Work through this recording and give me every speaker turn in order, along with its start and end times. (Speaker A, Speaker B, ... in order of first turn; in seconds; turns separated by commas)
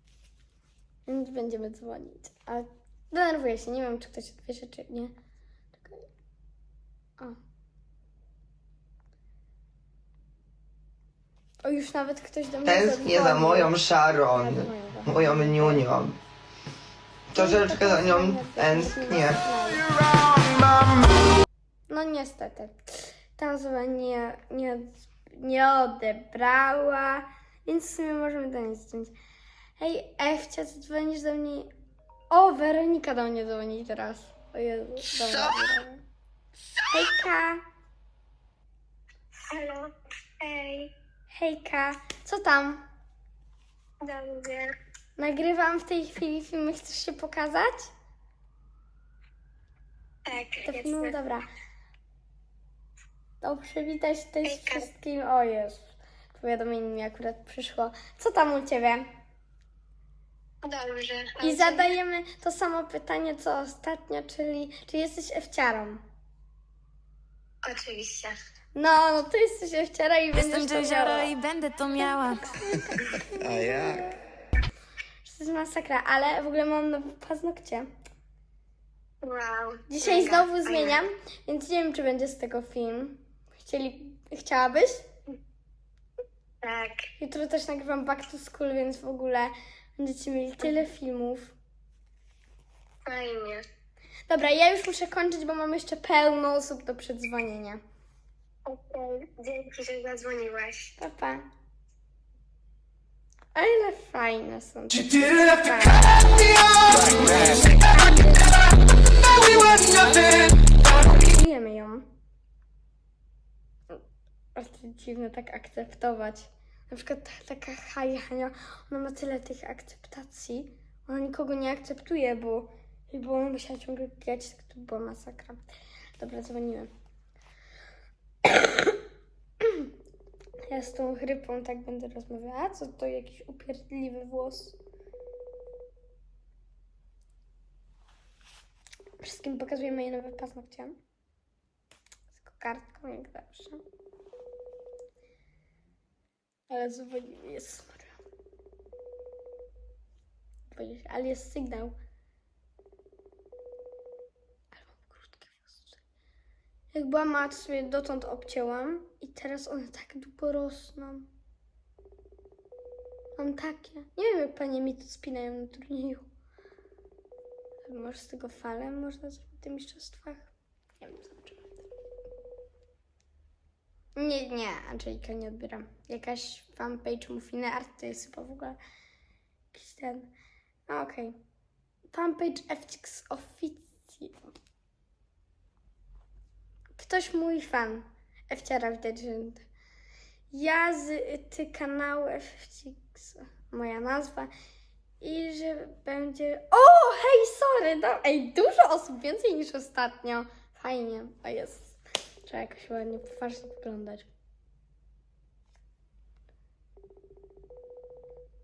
Speaker A: 1.1-5.1, Speaker A: 5.8-6.1, Speaker A: 11.6-13.7, Speaker B: 12.6-16.2, Speaker A: 14.3-15.9, Speaker B: 17.3-19.4, Speaker A: 17.3-19.9, Speaker B: 20.2-20.4, Speaker A: 21.9-29.1, Speaker A: 29.8-31.7, Speaker A: 32.3-36.0, Speaker B: 35.0-35.8, Speaker B: 36.6-37.3, Speaker A: 36.9-37.6, Speaker C: 39.5-40.9, Speaker A: 41.3-42.8, Speaker C: 44.0-44.7, Speaker A: 45.2-47.9, Speaker C: 50.2-51.1, Speaker A: 50.6-51.5, Speaker A: 53.4-59.1, Speaker C: 54.4-54.9, Speaker C: 60.6-61.9, Speaker A: 61.4-66.0, Speaker C: 67.6-68.3, Speaker A: 68.8-71.4, Speaker D: 70.4-72.5, Speaker A: 71.9-74.2, Speaker B: 73.3-74.1, Speaker A: 75.2-77.9, Speaker C: 79.2-81.0, Speaker A: 79.9-85.1, Speaker C: 86.6-87.1, Speaker A: 87.2-91.5, Speaker C: 93.0-93.6, Speaker A: 94.3-97.8, Speaker C: 98.7-100.9, Speaker A: 101.0-101.5, Speaker A: 103.5-108.6, Speaker B: 106.9-107.7, Speaker A: 109.2-112.1, Speaker A: 114.5-125.6, Speaker A: 126.2-126.9, Speaker A: 128.4-129.0, Speaker A: 129.6-129.9, Speaker A: 130.7-134.8, Speaker A: 139.2-141.0, Speaker A: 142.3-143.8, Speaker A: 146.7-148.1, Speaker A: 150.7-151.9, Speaker A: 154.7-156.0, Speaker A: 156.9-161.3, Speaker A: 163.4-166.2, Speaker A: 167.8-171.7, Speaker A: 174.1-178.8, Speaker A: 179.7-180.3, Speaker A: 180.9-181.4, Speaker A: 182.1-184.5, Speaker A: 186.9-189.6, Speaker A: 190.5-194.5, Speaker A: 195.2-204.3